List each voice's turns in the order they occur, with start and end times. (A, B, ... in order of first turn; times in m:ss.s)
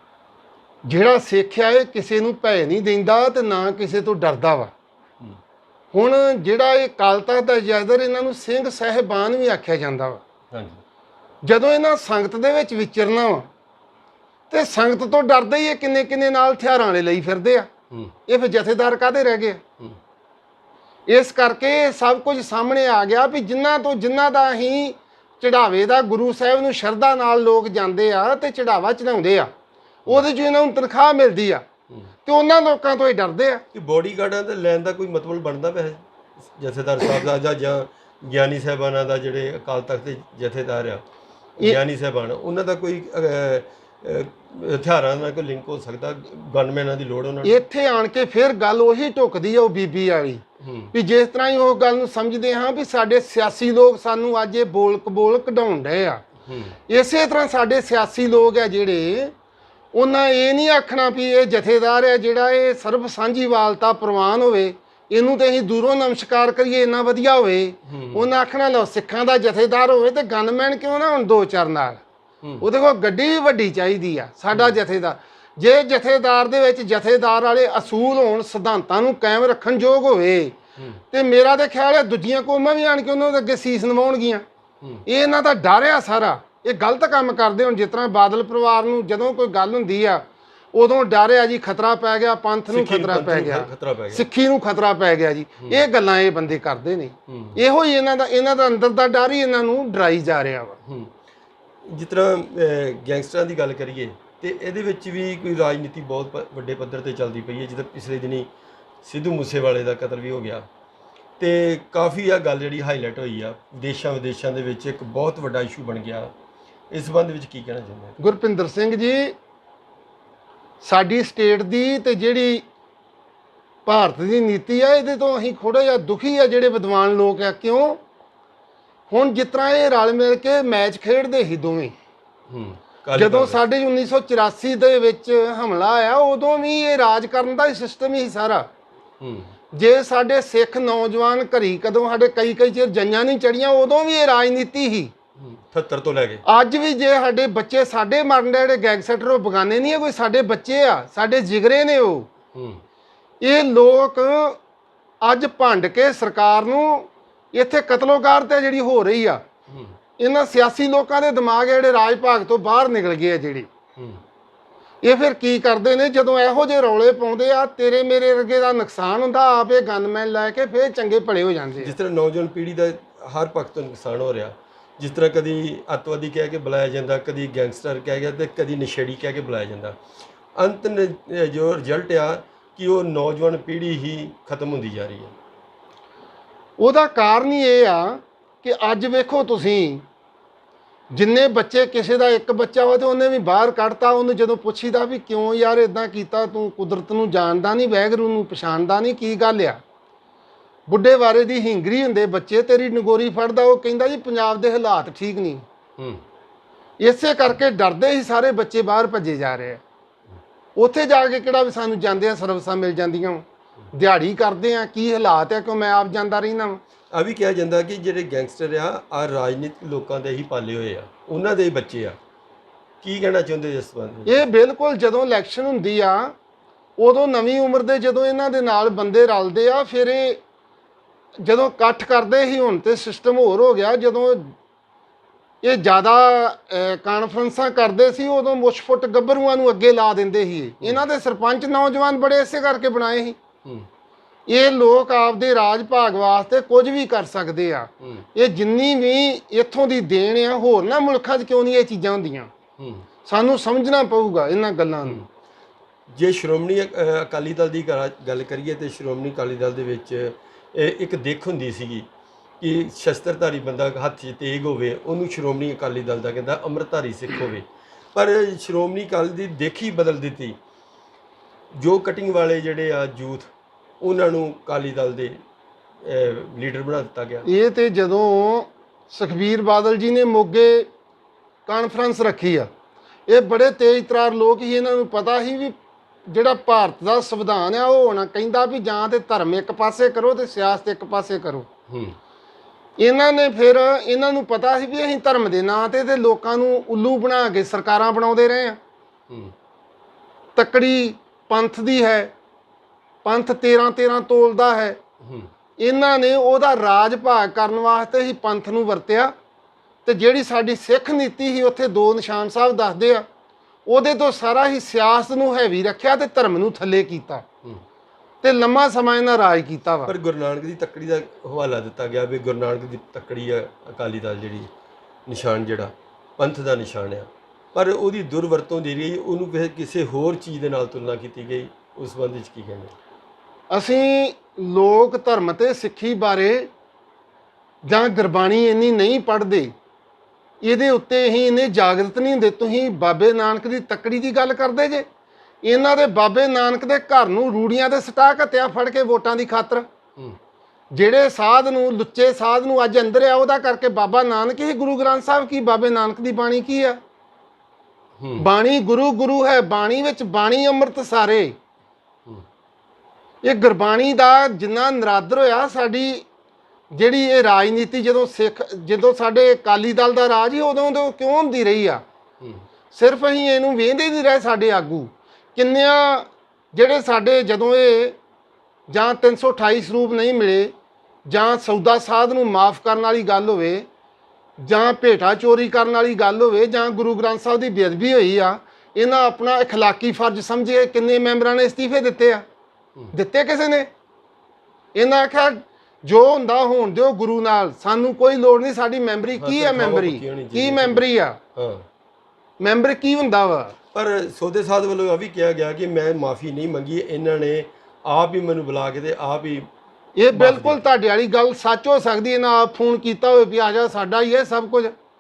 0:00.9-0:04.7 A
0:05.9-0:10.2 A
0:10.5-0:10.8 B
0:11.4-0:13.5 A
0:14.5-0:17.7 A
0:18.3-0:19.6 A
0:21.1-0:29.5 A
0:30.1-0:31.6 A
0:32.3-0:33.6 A
0:33.7-0:41.0 B
0:41.6-0:47.6 B
0:47.4-0:56.2 A
0:50.6-0:50.9 B
0:56.4-0:56.8 B
0:56.9-0:59.3 A
0:59.9-1:12.0 A
1:07.9-1:08.3 B
1:12.6-1:20.6 A
1:21.1-1:24.4 A
1:25.1-1:40.8 A
1:32.7-1:34.3 B
1:37.3-1:37.6 B
1:40.8-1:41.1 B
1:41.9-1:48.5 B
1:49.0-1:50.7 B
1:51.4-1:56.3 B
1:56.9-1:58.2 B
1:58.2-1:59.4 A
2:00.8-2:02.6 A
2:03.9-2:08.0 A
2:09.1-2:12.0 A
2:12.5-2:13.6 B
2:13.2-2:18.7 A
2:19.2-2:19.5 B
2:19.7-2:25.1 A
2:25.4-2:26.4 B
2:26.5-2:32.3 A
2:32.5-2:32.8 B
2:33.4-2:34.6 A
2:35.2-2:39.4 A
2:39.7-2:40.0 B
2:40.2-2:43.7 A
2:44.0-2:44.2 B
2:45.0-2:51.9 A
2:51.8-3:00.0 B
3:00.6-3:05.3 B
3:06.8-3:10.0 A
3:11.1-3:19.8 A
3:20.9-3:25.6 A
3:27.0-3:29.8 A
3:30.8-3:36.8 A
3:37.1-3:42.2 B
3:43.0-3:44.4 B
3:44.3-3:46.4 A
3:47.0-3:50.4 A
3:51.4-3:54.5 A
3:55.6-4:03.4 A
4:04.5-4:12.5 A
4:12.8-4:13.1 B
4:13.2-4:15.2 A
4:16.1-4:22.1 B
4:22.6-4:30.6 B
4:31.8-4:33.5 B
4:34.0-4:35.4 B
4:36.0-4:37.5 B
4:37.4-4:40.9 A
4:41.7-4:42.7 A
4:43.3-4:51.7 A
4:51.9-4:52.2 B
4:53.0-4:58.8 A
5:00.6-5:02.3 A
5:03.2-5:05.0 A
5:05.2-5:05.5 B
5:05.8-5:09.3 A
5:10.0-5:13.2 A
5:13.9-5:17.4 A
5:18.4-5:20.1 A
5:20.0-5:24.7 B
5:25.3-5:32.9 B
5:33.7-5:36.7 A
5:37.8-5:39.7 A
5:40.6-5:45.1 A
5:45.6-5:49.9 A
5:50.9-5:57.0 A
5:58.2-5:58.5 B
5:58.4-6:01.6 A
6:03.4-6:06.2 A
6:06.9-6:12.0 A
6:12.9-6:18.2 A
6:18.9-6:20.7 A
6:21.3-6:23.9 A
6:24.6-6:32.4 A
6:33.1-6:33.9 A
6:35.0-6:41.4 A
6:39.4-6:41.9 B
6:42.6-6:43.8 A
6:43.9-6:49.7 B
6:50.2-6:54.9 A
6:50.3-6:50.9 B